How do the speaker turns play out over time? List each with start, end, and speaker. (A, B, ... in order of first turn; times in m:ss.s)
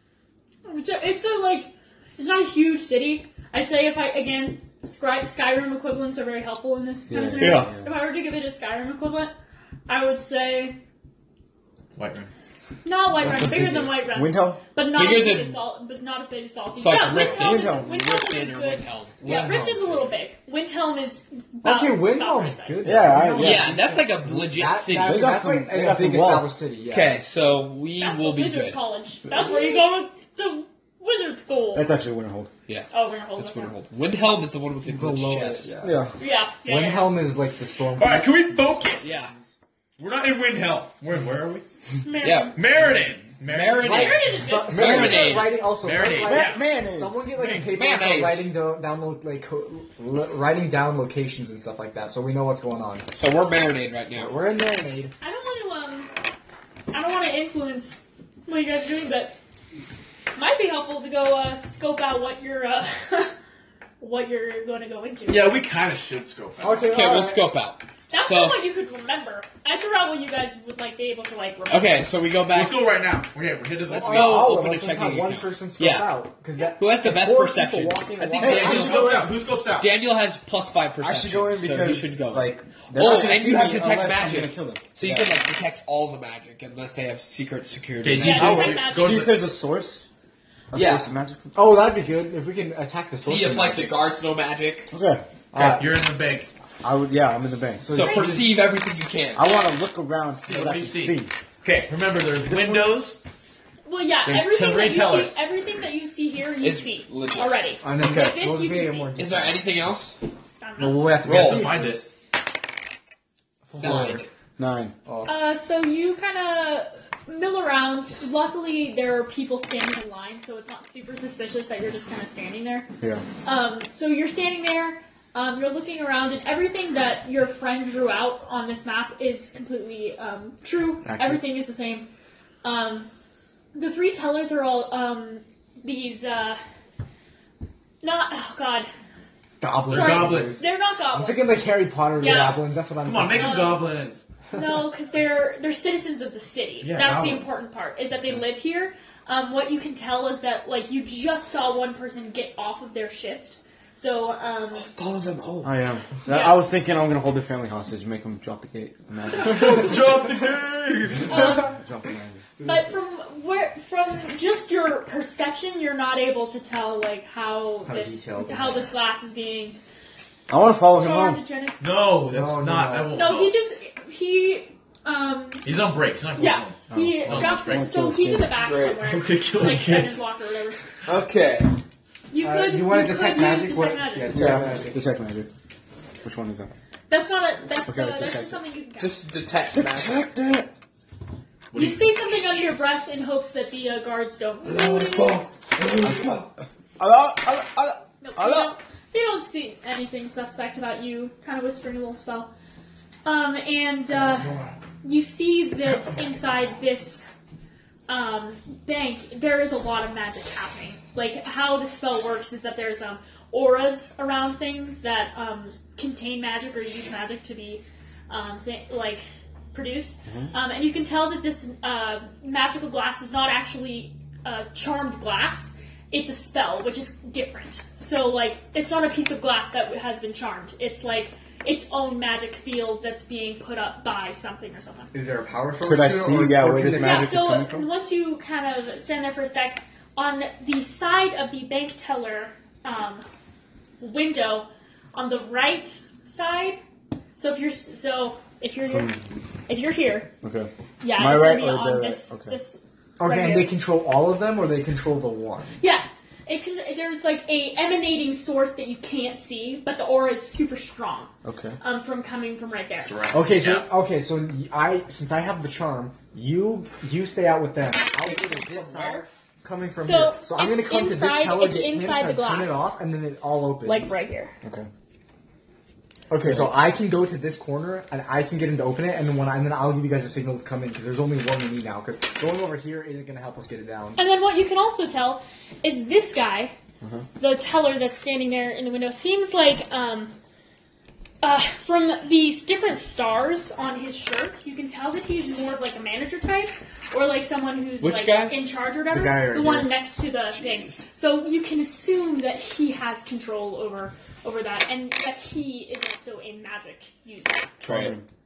0:00.6-0:09.3 A
0:07.1-0:07.9 B
0:07.4-0:07.7 C
0:09.9-0:10.8 A
0:12.0-0:12.3 C
0:12.8-0:23.0 A
0:13.2-0:14.6 B
0:13.3-0:13.8 D
0:14.9-0:15.6 E
0:16.8-0:20.0 E
0:17.1-0:17.9 D
0:19.2-0:20.0 D
0:21.6-0:27.2 D
0:22.8-0:23.9 B
0:23.2-0:25.4 E
0:24.9-0:26.6 B
0:26.9-0:28.8 E
0:28.0-0:32.0 A
0:31.7-0:32.5 B
0:32.7-0:35.8 E
0:32.9-0:33.8 A
0:34.8-0:36.1 D
0:35.8-0:36.2 B
0:36.2-0:37.2 A
0:36.7-0:38.8 D
0:38.0-0:39.2 C
0:39.0-0:39.3 E
0:40.0-0:41.6 C
0:42.0-0:42.6 A
0:42.2-0:42.6 E
0:42.6-0:44.3 C
0:43.5-0:45.7 E
0:43.8-0:53.1 D
0:43.8-0:45.4 A
0:44.8-0:45.3 B
0:45.7-0:46.7 C
0:46.1-0:47.3 B
0:47.3-0:47.7 C
0:47.6-0:48.5 E
0:53.1-0:54.3 E
0:54.2-0:55.1 D
0:55.2-0:56.1 A
0:56.9-0:59.4 A
1:00.3-1:03.3 A
1:04.0-1:05.6 A
1:05.3-1:07.0 C
1:06.6-1:07.5 D
1:06.9-1:08.6 E
1:08.1-1:12.1 A
1:11.7-1:12.8 E
1:12.5-1:14.6 C
1:13.9-1:16.2 E
1:13.9-1:19.2 D
1:16.7-1:19.2 E
1:18.4-1:19.3 B
1:18.4-1:19.9 C
1:19.7-1:28.7 E
1:21.0-1:25.4 B
1:23.7-1:24.3 D
1:28.0-1:29.6 C
1:28.1-1:29.3 A
1:28.3-1:30.1 B
1:30.7-1:31.8 B
1:30.7-1:31.1 E
1:31.6-1:34.0 D
1:33.2-1:34.9 E
1:34.9-1:35.2 B
1:35.5-1:35.9 D
1:35.5-1:36.5 C
1:36.8-1:37.9 B
1:37.8-1:38.7 D
1:37.9-1:39.7 E
1:38.0-1:38.5 A
1:39.4-1:41.3 B
1:40.4-1:43.2 C
1:43.9-1:49.1 A
1:44.3-1:45.4 C
1:46.6-1:48.4 E
1:47.8-1:49.7 D
1:49.2-1:50.2 E
1:50.6-1:51.1 A
1:50.8-1:52.0 D
1:51.2-1:51.7 E
1:51.2-1:52.1 C
1:53.7-1:54.3 D
1:53.8-1:54.3 E
1:53.8-1:54.9 B
1:55.1-1:55.3 D
1:55.3-2:02.9 A
2:03.4-2:12.1 A
2:11.0-2:11.4 B
2:12.6-2:13.1 A
2:13.7-2:16.6 A
2:18.0-2:18.9 A
2:19.6-2:23.8 D
2:19.9-2:20.7 C
2:19.9-2:22.6 A
2:23.0-2:24.2 C
2:23.4-2:23.8 A
2:24.5-2:34.9 A
2:26.8-2:27.5 C
2:34.8-2:35.7 E
2:35.6-2:40.0 B
2:36.3-2:36.7 A
2:39.4-2:41.5 C
2:39.5-2:39.9 A
2:41.2-2:42.6 B
2:41.3-2:41.8 A
2:42.6-2:49.8 A
2:47.8-2:48.9 D
2:50.5-2:51.4 B
2:50.9-2:51.8 A
2:51.8-2:53.6 C
2:52.3-2:53.2 D
2:53.1-2:55.7 A
2:55.6-2:57.9 C
2:56.4-3:00.8 A
2:56.9-2:57.2 D
2:57.3-2:58.6 B
2:58.5-2:59.1 E
2:59.0-3:00.2 C
3:01.1-3:01.8 E
3:02.3-3:04.5 A
3:02.4-3:05.0 D
3:04.3-3:05.5 B
3:06.2-3:06.8 B
3:07.1-3:09.2 A
3:07.9-3:08.6 B
3:09.0-3:10.3 E
3:09.7-3:10.7 B
3:11.7-3:12.5 C
3:11.7-3:16.2 A
3:14.6-3:16.5 E
3:16.0-3:16.3 B
3:17.0-3:18.8 B
3:18.2-3:22.5 A
3:23.2-3:27.3 A
3:28.1-3:55.1 A
3:40.3-3:40.5 B
3:55.1-3:57.5 D
3:55.8-3:57.9 B
3:57.0-4:03.2 A
4:04.0-4:06.8 A
4:07.4-4:10.3 A
4:08.9-4:09.2 B
4:10.4-4:12.6 B
4:11.0-4:13.7 A
4:13.2-4:15.8 D
4:15.8-4:23.1 A
4:21.4-4:21.8 B
4:23.0-4:23.9 C
4:23.3-4:34.1 D
4:28.2-4:29.3 E
4:30.0-4:32.9 A
4:33.8-4:34.5 A
4:34.6-4:34.9 B
4:36.3-4:44.2 D
4:36.5-4:36.8 B
4:44.2-4:46.7 A
4:47.0-4:47.3 B
4:47.4-4:50.4 A
4:51.4-5:07.7 A
4:58.0-4:58.6 E
4:59.1-4:59.9 D
5:00.6-5:01.0 E
5:07.8-5:08.2 E
5:07.9-5:08.2 B